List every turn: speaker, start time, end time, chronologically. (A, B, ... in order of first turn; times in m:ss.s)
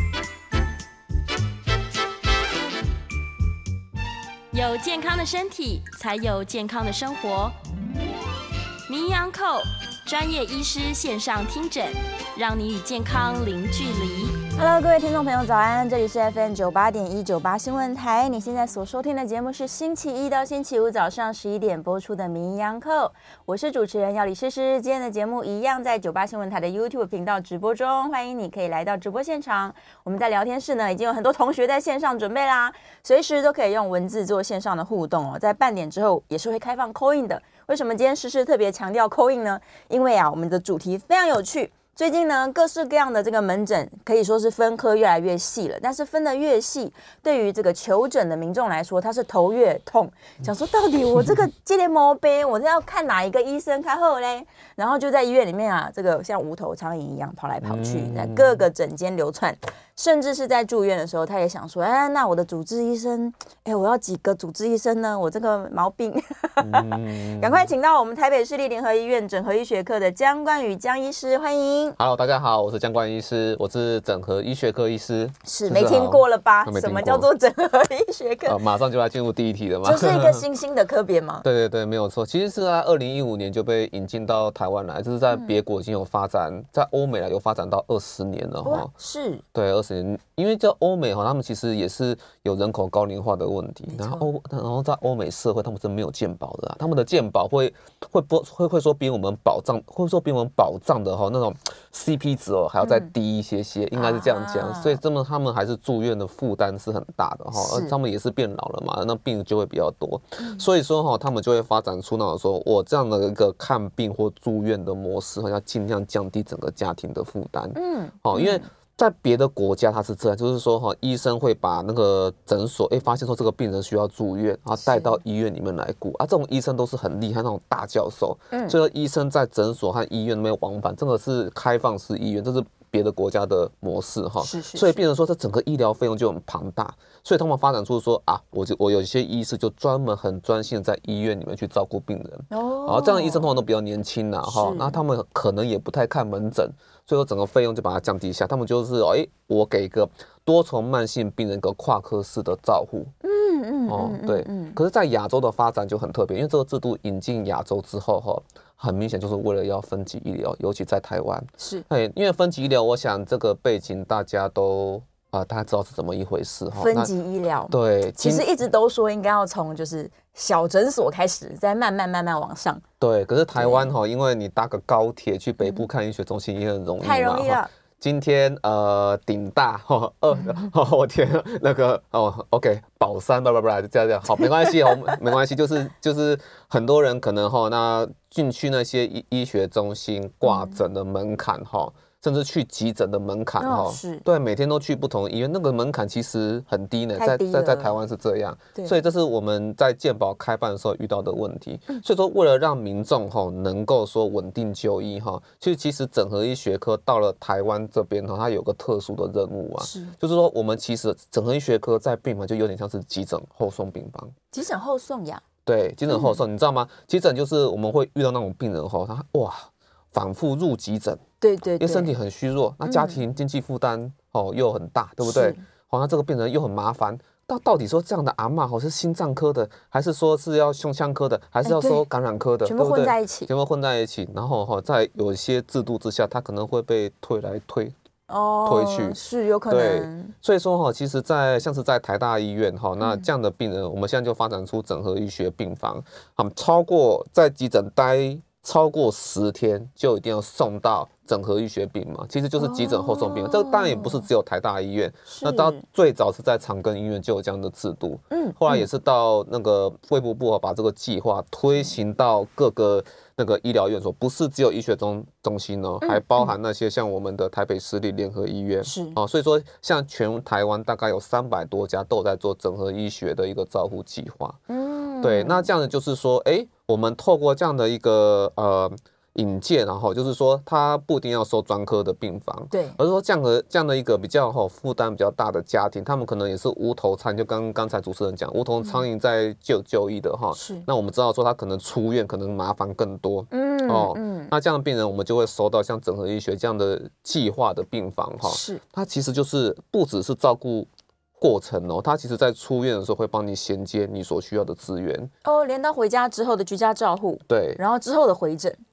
0:04.5-0:07.6 A
0:08.9-0:14.4 A
0:14.5-1:12.0 B
0:57.6-0:58.6 C
1:06.6-1:07.7 C
1:12.0-1:17.3 C
1:15.4-1:18.6 B
1:18.5-1:20.4 C
1:19.8-1:21.4 B
1:21.4-1:28.9 C
1:28.6-1:29.4 B
1:29.5-2:33.1 C
1:33.9-1:34.2 B
1:42.8-1:43.1 B
1:44.0-1:45.0 B
1:47.6-1:47.9 B
1:50.4-1:50.7 B
1:57.8-1:58.7 B
2:04.8-2:05.2 B
2:14.4-2:15.0 B
2:22.5-2:23.5 B
2:24.4-2:25.0 B
2:33.2-2:34.8 B
2:33.9-2:47.1 C
2:41.6-2:41.8 B
2:46.8-2:52.8 B
2:47.7-2:48.5 C
2:53.0-3:34.3 C
2:53.6-2:53.9 B
2:57.0-2:57.7 B
3:10.4-3:10.8 B
3:13.6-3:14.2 B
3:17.2-3:18.0 B
3:29.8-3:30.1 B
3:34.5-3:35.4 B
3:35.6-3:41.2 C
3:36.1-3:36.4 B
3:41.4-3:42.1 B
3:41.8-3:58.0 C
3:42.8-3:43.2 B
3:45.2-3:45.6 B
3:51.6-3:52.0 B
3:52.6-3:53.5 B
3:58.3-4:00.3 B
3:58.6-4:34.6 C
4:03.0-4:03.3 B
4:12.6-4:14.3 B
4:15.3-4:15.8 B
4:18.3-4:18.9 B
4:26.0-4:26.5 B
4:28.8-4:29.2 B
4:34.7-4:35.7 B
4:35.2-5:05.3 C
4:42.7-4:43.0 B
4:50.5-4:50.9 B
4:53.5-4:54.5 B
4:58.4-4:58.8 B
5:05.4-5:08.8 B
5:07.5-5:07.8 C